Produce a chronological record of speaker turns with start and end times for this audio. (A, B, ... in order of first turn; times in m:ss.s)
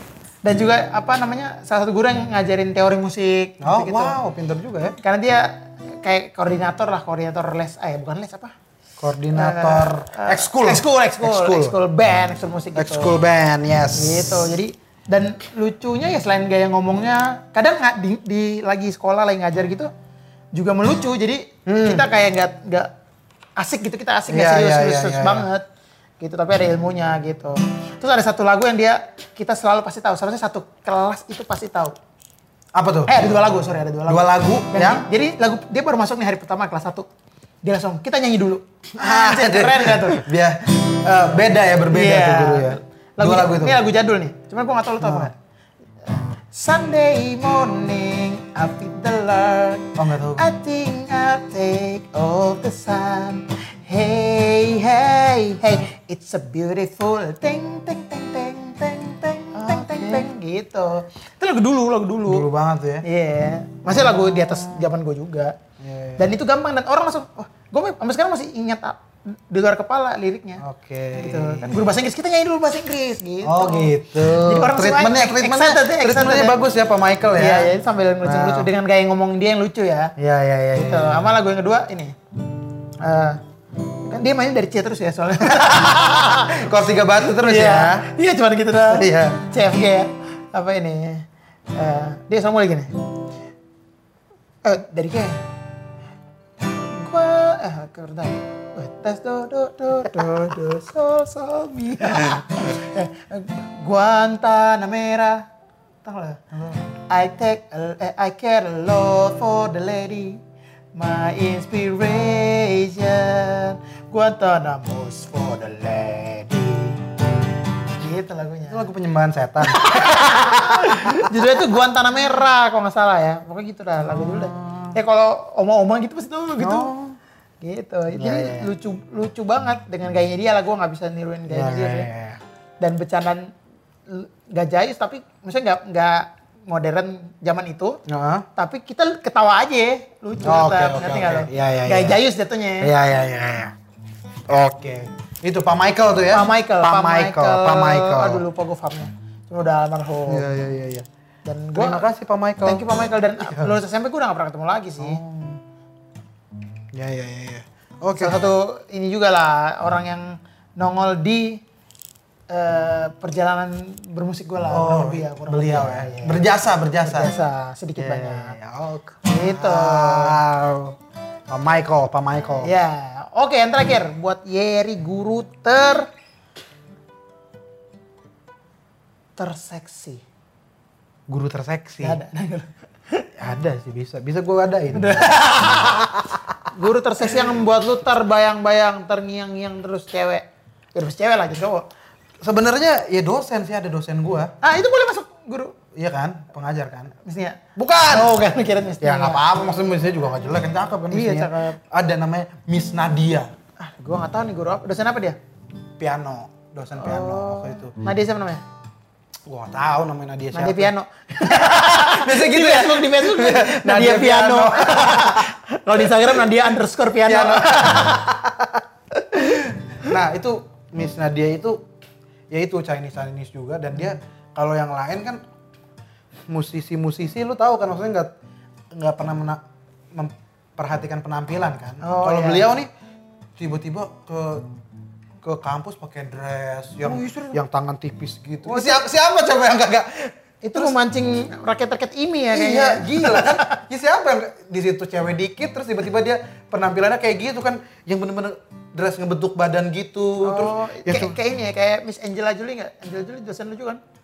0:00.4-0:04.2 A
0:03.6-0:05.0 B
0:05.0-0:08.5 A
0:09.0-0:11.8 B
0:09.3-0:13.2 A
0:12.8-0:14.6 B
0:13.9-0:19.9 A
0:20.6-0:22.9 A
0:21.7-0:22.0 B
0:23.6-0:25.6 A
0:24.3-0:25.5 B
0:26.2-0:32.0 A
0:32.8-0:33.2 B
0:33.1-0:37.1 A
0:34.1-0:35.1 B
0:37.6-0:40.2 A
0:39.0-0:43.8 B
0:41.9-0:45.4 A
0:45.0-0:45.3 B
0:46.1-1:02.5 A
0:50.0-0:50.4 B
0:59.6-1:00.3 B
1:02.3-1:03.0 B
1:03.0-1:05.6 A
1:03.9-1:04.9 B
1:05.8-1:06.3 B
1:06.2-1:10.6 A
1:10.6-1:11.8 B
1:11.2-1:16.6 A
1:13.4-1:18.7 B
1:17.3-1:20.1 A
1:20.2-1:21.3 B
1:20.8-1:22.2 A
1:23.0-1:23.4 A
1:24.0-1:26.6 A
1:25.4-1:28.1 B
1:27.2-1:32.9 A
1:28.9-1:29.4 B
1:34.6-1:35.4 A
1:36.8-1:45.5 A
1:46.0-1:50.4 A
1:51.0-1:57.0 A
1:58.0-1:58.9 A
1:58.7-2:01.4 B
1:59.6-2:06.9 A
2:04.2-2:05.0 B
2:06.6-2:07.2 B
2:07.6-2:12.1 A
2:08.1-2:08.7 B
2:11.5-2:12.4 B
2:12.8-2:13.5 A
2:14.1-2:18.0 A
2:18.1-2:18.5 B
2:18.6-2:22.9 A
2:20.4-2:22.2 B
2:22.8-2:23.7 B
2:24.5-2:28.4 B
2:26.3-2:30.5 A
2:30.3-2:31.1 B
2:31.4-2:32.1 A
2:31.8-2:32.8 B
2:32.6-2:35.2 A
2:33.4-2:33.8 B
2:35.0-2:35.6 B
2:36.9-2:38.4 B
2:38.1-2:41.6 A
2:42.5-2:46.5 A
2:44.7-2:47.3 B
2:47.0-2:48.6 A
2:48.0-2:51.0 B
2:49.2-2:50.4 A
2:51.5-2:52.7 B
2:52.6-2:56.1 A
2:59.4-3:00.2 A
3:01.3-3:02.2 B
3:02.0-3:03.3 A
3:03.4-3:06.4 B
3:04.9-3:06.1 A
3:06.7-3:11.8 A
3:12.4-3:14.5 B
3:14.6-3:15.8 A
3:16.0-3:17.1 B
3:17.2-3:19.4 A
3:17.8-3:18.3 B
3:19.0-3:23.5 B
3:21.1-3:21.8 A
3:23.8-3:25.4 A
3:26.0-3:28.0 B
3:27.0-3:28.6 A
3:29.5-3:35.5 B
3:30.5-3:38.2 A
3:37.3-3:41.8 B
3:42.5-3:45.4 B
3:46.5-3:48.3 B
3:48.9-3:49.6 B
3:50.1-3:52.9 B
3:52.0-3:52.7 A
3:53.6-3:54.7 B
3:55.4-4:01.0 B
3:57.0-3:57.6 A
3:58.7-3:59.0 A
4:00.6-4:03.8 A
4:02.5-4:11.4 B
4:10.4-4:14.0 A